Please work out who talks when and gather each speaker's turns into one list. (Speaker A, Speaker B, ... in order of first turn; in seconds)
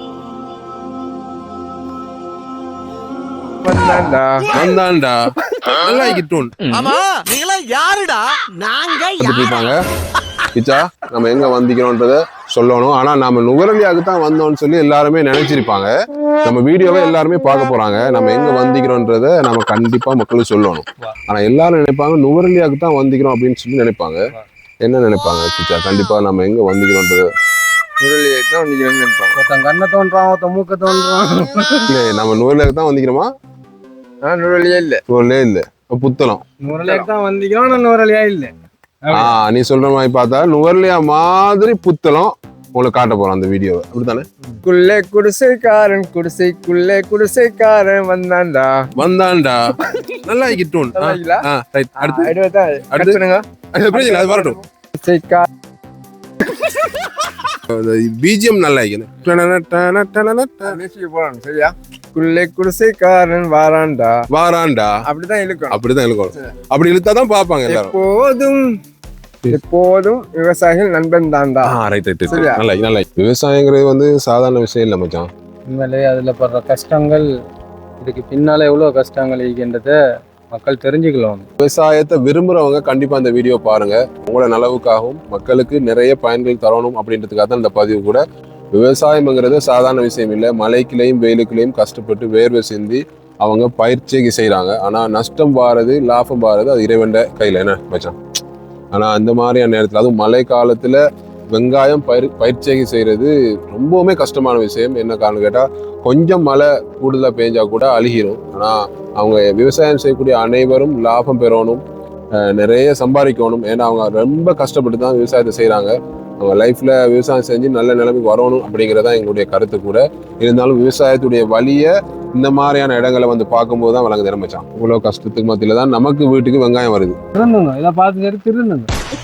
Speaker A: 3.6-4.5, 28.0-29.4, 34.2-35.0, 36.8-37.1, 44.6-48.7, 50.9-51.4, 52.0-55.5, 60.6-64.2, 65.0-65.8, 67.7-68.7, 69.5-71.7, 72.3-72.6
Speaker B: 4.5-6.5, 9.2-9.8, 10.5-15.9, 16.4-24.2, 24.8-27.3, 31.9-33.3, 35.1-36.4, 39.1-44.2, 49.0-52.3, 52.9-53.2, 53.7-54.6, 57.5-60.8, 64.3-64.9, 65.7-67.9, 71.7-75.3, 81.6-88.2, 88.7-98.2, 98.9-101.0, 101.5-111.8, 112.4-127.2
Speaker C: 6.7-9.7
Speaker D: 29.4-31.9, 36.6-38.5, 39.0-39.4, 75.7-77.2, 78.0-80.0, 80.5-81.5, 127.3-128.9